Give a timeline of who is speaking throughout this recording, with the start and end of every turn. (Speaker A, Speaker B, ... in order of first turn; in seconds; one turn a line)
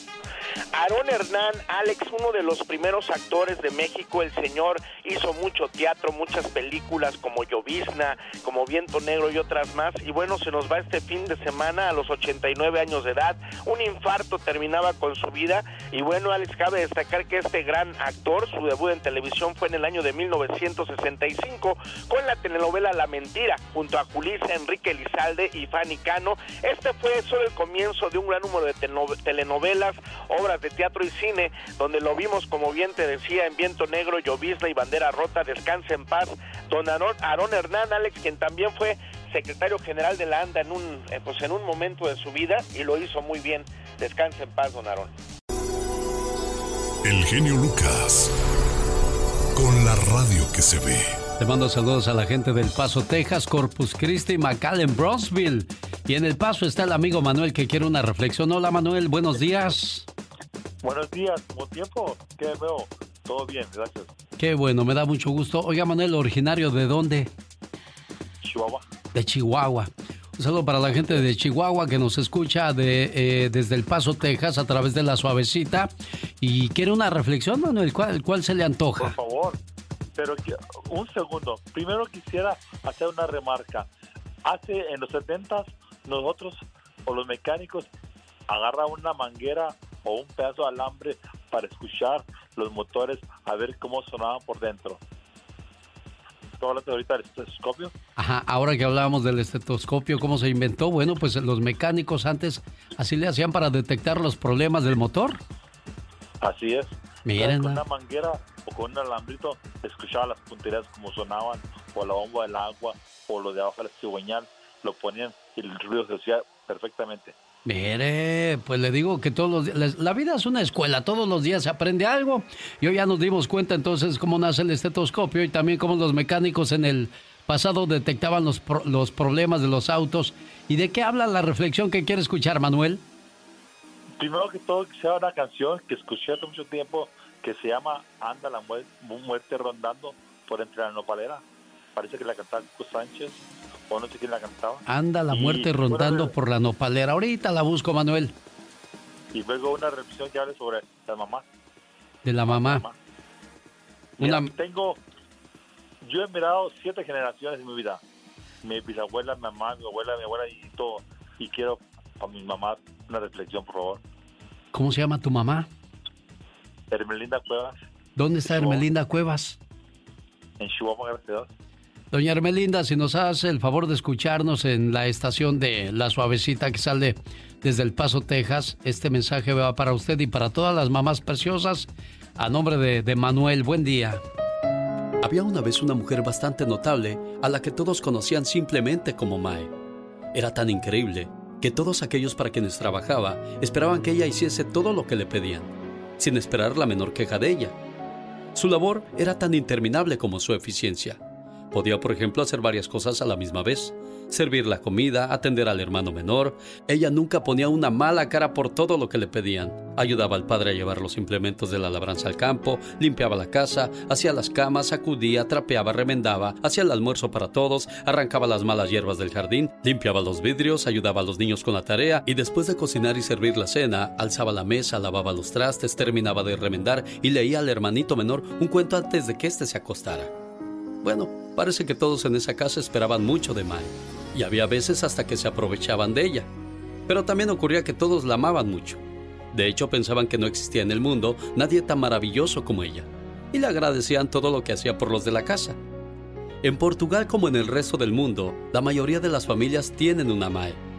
Speaker A: 0.7-45.1
Speaker B: 47.0-48.3
Speaker B: 49.5-51.2
Speaker C: 51.4-60.1
Speaker D: 60.8-64.1
Speaker C: 64.4-67.3
Speaker D: 68.4-68.8
Speaker C: 69.1-75.9
Speaker C: 76.4-79.2
Speaker D: 79.0-79.6
Speaker D: 80.2-83.9
Speaker D: 84.5-87.9
Speaker D: 88.5-95.0
Speaker D: 96.6-97.9
Speaker C: 98.2-105.4
Speaker D: 106.4-117.3
Speaker C: 107.2-107.8
Speaker C: 117.7-133.0
Speaker D: 134.2-141.4
Speaker D: 141.9-146.3
Speaker C: 144.9-148.3
Speaker D: 149.3-151.5
Speaker C: 152.2-152.8
Speaker D: 152.5-152.9
Speaker D: 154.2-155.0
Speaker C: 154.2-154.5
Speaker D: 156.0-158.0
Speaker D: 158.6-164.0
Speaker C: 164.7-165.7
Speaker D: 166.9-167.8
Speaker C: 168.2-169.6
Speaker D: 168.5-168.9
Speaker D: 170.6-171.5
Speaker C: 172.1-184.2
Speaker C: 185.2-189.7
Speaker C: 190.3-197.8
Speaker C: 198.6-201.2
Speaker C: 201.7-230.3
Speaker C: 231.0-236.5
Speaker C: 237.1-239.0
Speaker C: 239.5-245.8
Speaker C: 246.6-250.8